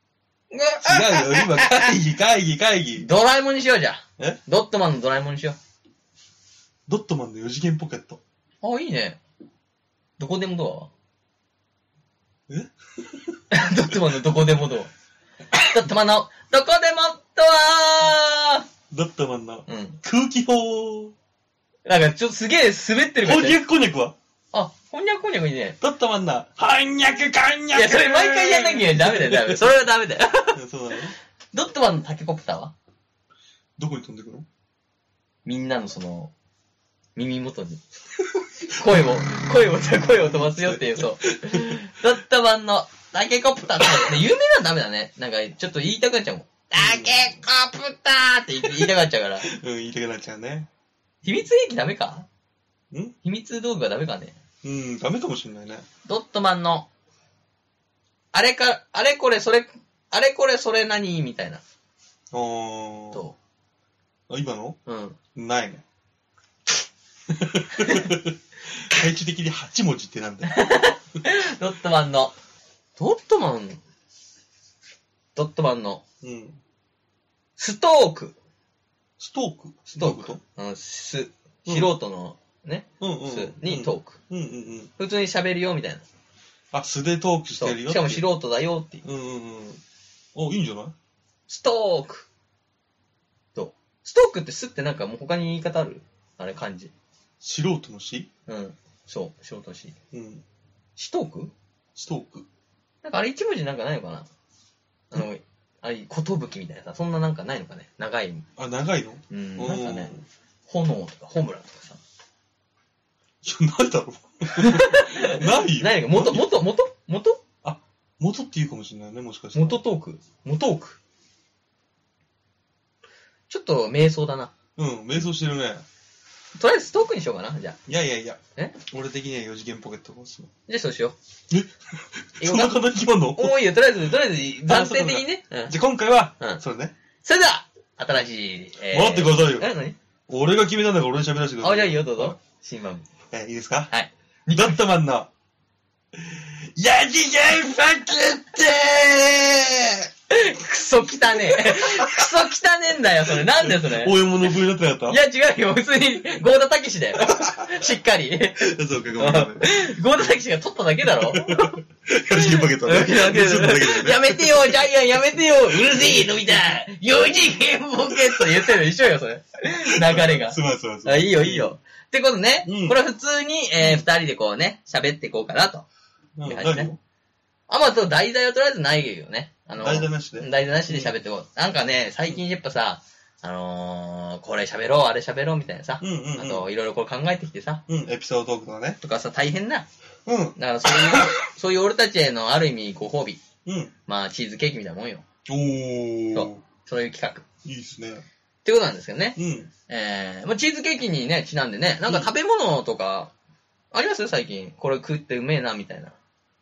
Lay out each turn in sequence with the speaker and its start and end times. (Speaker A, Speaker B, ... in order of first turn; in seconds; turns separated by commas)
Speaker A: 0.5-1.9, Speaker B: 0.8-3.1, Speaker A: 3.0-5.6, Speaker B: 6.9-8.2, Speaker A: 8.6-9.2, Speaker A: 10.2-10.9, Speaker B: 12.5-13.4, Speaker A: 13.5-14.9, Speaker B: 13.9-14.2, Speaker A: 15.6-18.6, Speaker B: 18.9-21.1, Speaker A: 19.7-20.0, Speaker A: 21.9-23.6, Speaker B: 23.2-24.1, Speaker A: 24.5-25.8, Speaker B: 25.8-29.6, Speaker A: 27.7-30.6, Speaker B: 30.5-31.2, Speaker A: 31.5-32.7, Speaker B: 33.8-34.5, Speaker A: 35.5-36.3, Speaker A: 37.2-37.8, Speaker A: 38.7-49.5, Speaker B: 38.8-41.8, Speaker B: 43.8-44.1, Speaker B: 46.8-47.4, Speaker B: 48.6-50.7, Speaker A: 51.2-52.3, Speaker A: 53.2-54.4, Speaker B: 54.6-55.9, Speaker A: 56.1-56.9, Speaker A: 58.3-61.6, Speaker B: 62.3-63.2, Speaker B: 64.3-64.8, Speaker A: 64.9-65.2, Speaker B: 65.3-65.8, Speaker B: 67.3-70.5, Speaker A: 67.8-68.1, Speaker A: 70.5-72.4, Speaker A: 73.0-73.8, Speaker A: 75.3-76.0, Speaker B: 76.2-76.6, Speaker A: 77.6-78.3, Speaker B: 79.2-80.4, Speaker A: 80.0-84.2, Speaker B: 81.7-81.9, Speaker B: 83.0-84.9, Speaker A: 85.0-86.0, Speaker B: 86.7-88.2, Speaker A: 87.6-89.0, Speaker B: 89.0-89.8, Speaker B: 90.3-91.0, Speaker A: 91.5-92.3, Speaker A: 93.5-96.9, Speaker B: 97.4-98.3, Speaker A: 98.5-100.0, Speaker B: 100.1-100.4, Speaker A: 101.0-101.5, Speaker B: 102.0-102.5, Speaker A: 103.0-104.3, Speaker A: 105.1-108.5, Speaker B: 108.6-110.2, Speaker A: 109.3-110.1, Speaker A: 110.7-112.0, Speaker B: 113.4-116.5, Speaker A: 114.5-117.4, Speaker B: 117.6-119.8, Speaker A: 119.5-121.0, Speaker A: 123.5-124.5, Speaker B: 124.8-125.8, Speaker A: 126.6-127.8, Speaker B: 127.9-130.5, Speaker A: 130.7-131.2, Speaker B: 131.5-133.6, Speaker A: 132.4-135.8, Speaker B: 134.6-136.9, Speaker A: 137.2-140.0, Speaker B: 138.9-139.7, Speaker B: 140.3-142.4, Speaker A: 141.6-143.1, Speaker B: 143.3-143.9, Speaker A: 143.9-144.8, Speaker B: 144.5-145.3, Speaker B: 146.2-150.1, Speaker A: 150.3-154.5, Speaker B: 151.1-152.4, Speaker B: 153.2-155.2, Speaker A: 155.1-161.8, Speaker B: 157.3-157.8, Speaker B: 158.6-160.0, Speaker B: 161.2-164.8, Speaker A: 162.3-175.9, Speaker B: 165.7-166.6, Speaker B: 168.2-168.7, Speaker B: 169.9-171.8, Speaker B: 172.7-173.0, Speaker B: 173.8-174.1, Speaker B: 176.4-177.0, Speaker A: 176.4-176.9, Speaker A: 177.7-187.8, Speaker B: 179.8-181.1, Speaker B: 186.0-186.7, Speaker B: 187.9-189.0, Speaker A: 189.0-189.9, Speaker B: 190.3-191.3, Speaker A: 190.6-193.4, Speaker B: 193.7-193.9, Speaker A: 194.1-195.2, Speaker B: 195.5-196.6, Speaker A: 196.3-197.4, Speaker B: 197.7-198.2, Speaker A: 198.6-203.3, Speaker B: 199.4-199.7, Speaker A: 203.9-206.2